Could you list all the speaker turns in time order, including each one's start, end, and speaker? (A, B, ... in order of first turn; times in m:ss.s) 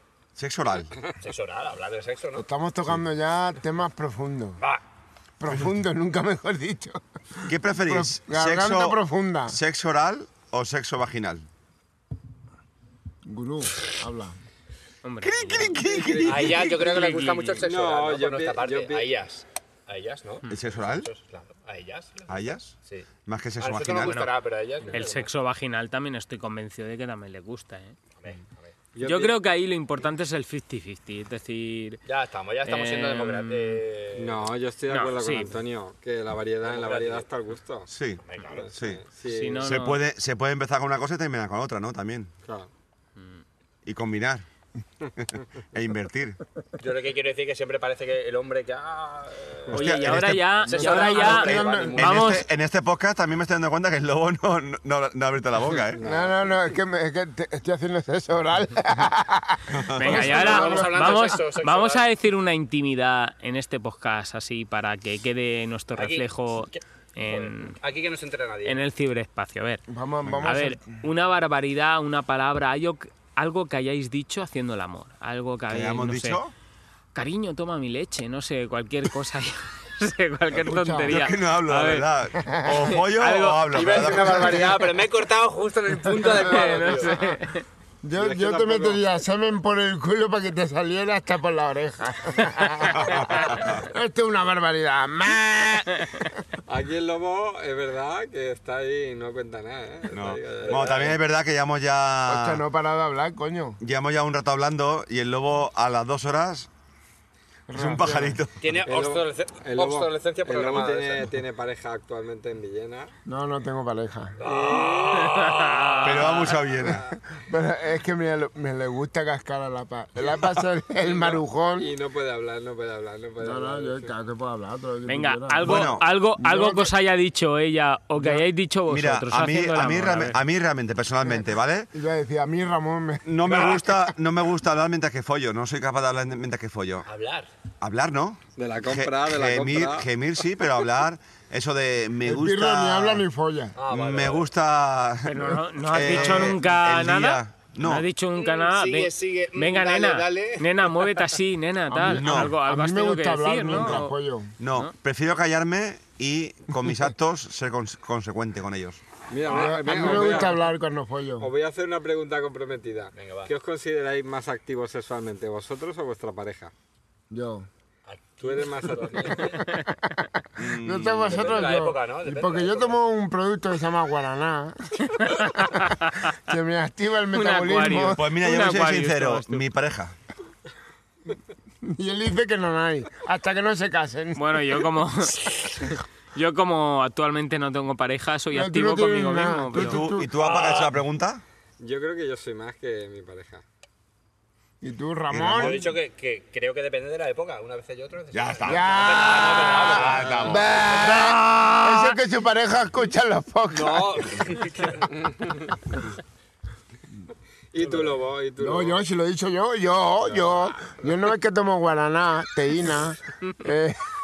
0:00.4-0:01.0 A
0:01.2-0:02.5 B
0:02.4-0:04.6 C
0:05.4-0:09.6 C
0:07.5-0:11.5 A
0:13.2-0:14.4 C
0:15.0-0:17.6 D
0:15.2-0:17.0 A
0:16.0-0:23.1 B
0:16.0-0:16.3 E
0:17.6-0:19.1 E
0:20.5-0:21.1 A
0:22.3-0:22.7 A
0:23.3-0:24.2 A
0:23.6-0:25.3 B
0:24.1-0:24.3 D
0:24.9-0:28.0 D
0:28.2-0:28.7 B
0:29.0-0:29.3 E
0:29.0-0:32.0 D
0:32.1-0:34.5 B
0:32.6-0:33.8 D
0:34.2-0:37.9 E
0:34.9-0:35.6 D
0:36.6-0:37.3 B
0:37.9-0:39.0 A
0:38.2-0:38.8 B
0:38.6-0:39.6 E
0:39.2-0:40.0 D
0:39.6-0:42.3 A
0:43.2-0:43.4 D
0:43.8-0:44.5 A
0:45.2-0:46.4 A
0:46.8-0:52.4 B
0:49.7-0:56.0 A
0:49.7-0:52.4 D
0:50.7-0:52.2 C
0:55.9-0:56.3 E
0:56.0-1:01.3 C
0:59.7-1:00.3 A
0:59.9-1:07.8 D
1:00.1-1:02.0 B
1:06.0-1:08.8 B
1:08.6-1:09.8 D
1:09.9-1:11.0 C
1:10.4-1:16.4 D
1:15.7-1:16.5 A
1:17.2-1:22.1 D
1:20.5-1:21.3 C
1:21.1-1:24.8 A
1:22.4-1:23.0 C
1:22.7-1:24.3 D
1:23.7-1:27.2 B
1:26.2-1:27.7 D
1:26.3-1:27.4 C
1:28.0-1:36.5 C
1:28.2-1:29.0 E
1:32.9-1:33.8 A
1:36.0-1:36.3 D
1:36.7-1:41.2 E
1:40.1-1:42.6 A
1:40.5-1:41.2 B
1:42.2-1:43.8 C
1:43.8-1:46.7 A
1:47.7-1:48.4 C
1:47.7-1:48.7 A
1:48.6-1:51.3 B
1:48.8-1:53.1 E
1:53.3-1:54.4 C
1:54.4-1:56.5 B
1:54.4-1:57.0 E
1:55.1-1:56.4 D
1:56.0-1:57.1 A
1:57.0-2:01.9 C
2:01.0-2:04.1 E
2:03.4-2:06.9 C
2:05.1-2:10.4 D
2:05.6-2:06.1 A
2:08.2-2:08.4 C
2:08.9-2:11.9 A
2:11.2-2:14.0 C
2:13.3-2:17.1 A
2:17.1-2:17.5 B
2:17.8-2:23.2 A
2:18.6-2:20.1 E
2:22.2-2:23.8 C
2:23.8-2:24.5 B
2:23.9-2:28.1 A
2:25.2-2:34.2 D
2:28.3-2:31.2 B
2:31.9-2:34.6 C
2:32.1-2:32.6 A
2:33.7-2:34.0 A
2:34.6-2:39.0 A
2:39.3-2:40.7 E
2:39.4-2:40.5 B
2:39.5-2:41.5 C
2:41.4-2:46.7 E
2:43.2-2:43.5 B
2:47.3-2:47.7 C
2:48.1-2:49.6 B
2:48.4-2:49.6 E
2:49.5-2:58.3 C
2:50.6-2:51.5 A
2:51.3-2:53.0 B
2:55.1-2:56.3 D
2:57.3-2:59.7 D
2:58.1-3:00.1 A
3:01.8-3:04.9 C
3:04.4-3:10.1 D
3:08.5-3:10.3 C
3:09.7-3:11.4 A
3:10.4-3:10.9 B
3:11.8-3:13.6 E
3:14.8-3:15.9 C
3:15.3-3:15.9 A
3:15.5-3:20.9 B
3:18.3-3:22.1 A
3:18.6-3:24.6 C
3:23.7-3:25.1 B
3:25.2-3:25.6 E
3:27.7-3:29.0 E
3:28.6-3:34.0 C